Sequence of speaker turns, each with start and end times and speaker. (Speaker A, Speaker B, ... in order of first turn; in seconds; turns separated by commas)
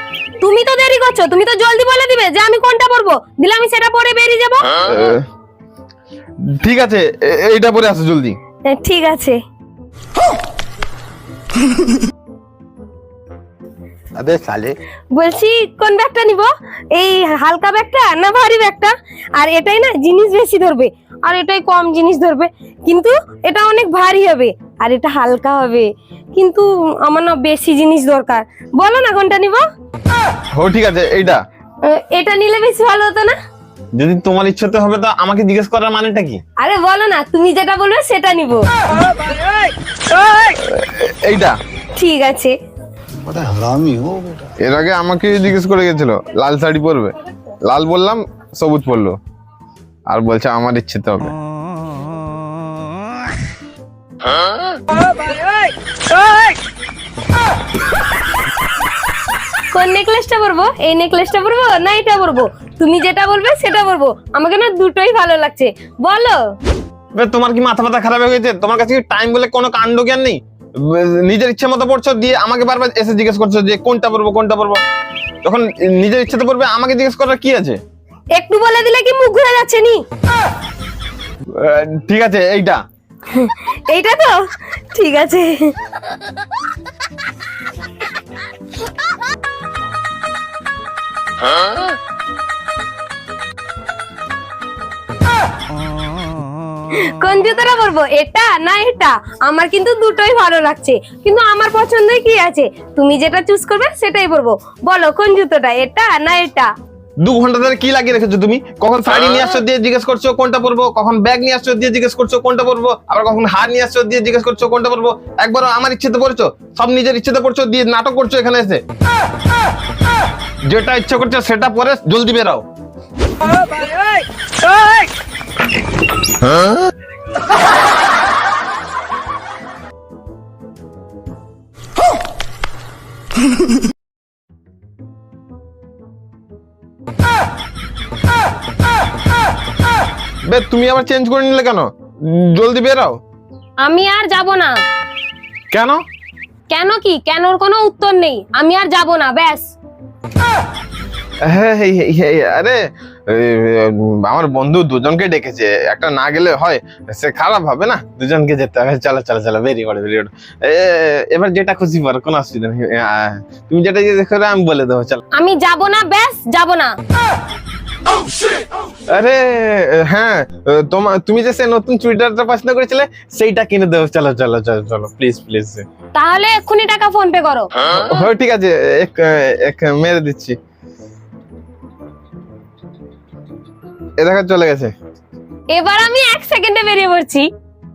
Speaker A: 0.4-4.8, Speaker B: 4.8-5.2, Speaker B: 6.5-8.4, Speaker A: 8.7-9.4, Speaker C: 14.2-14.8, Speaker A: 15.1-29.6, Speaker B: 30.5-31.4, Speaker A: 31.8-33.4, Speaker B: 34.0-36.4, Speaker A: 36.6-39.7, Speaker B: 40.4-41.6, Speaker A: 42.0-42.5, Speaker C: 43.2-44.5, Speaker B: 44.6-47.1, Speaker B: 47.6-49.1, Speaker B: 50.1-51.3, Speaker A: 55.0-55.7, Speaker A: 59.7-66.4, Speaker B: 67.1-74.8, Speaker B: 75.4-77.8, Speaker A: 78.3-80.0, Speaker B: 81.5-82.8, Speaker A: 83.3-84.4, Speaker A: 84.9-85.7, Speaker A: 96.9-106.7, Speaker B: 107.2-118.8, Speaker B: 120.7-122.6, Speaker B: 126.4-126.9, Speaker B: 140.5-143.2, Speaker A: 143.8-144.8, Speaker B: 145.7-146.0, Speaker A: 146.7-149.7, Speaker B: 151.4-165.2, Speaker A: 165.3-166.9, Speaker B: 169.1-175.8, Speaker A: 176.1-177.9, Speaker B: 177.9-180.6, Speaker B: 184.2-184.9, Speaker A: 185.7-187.5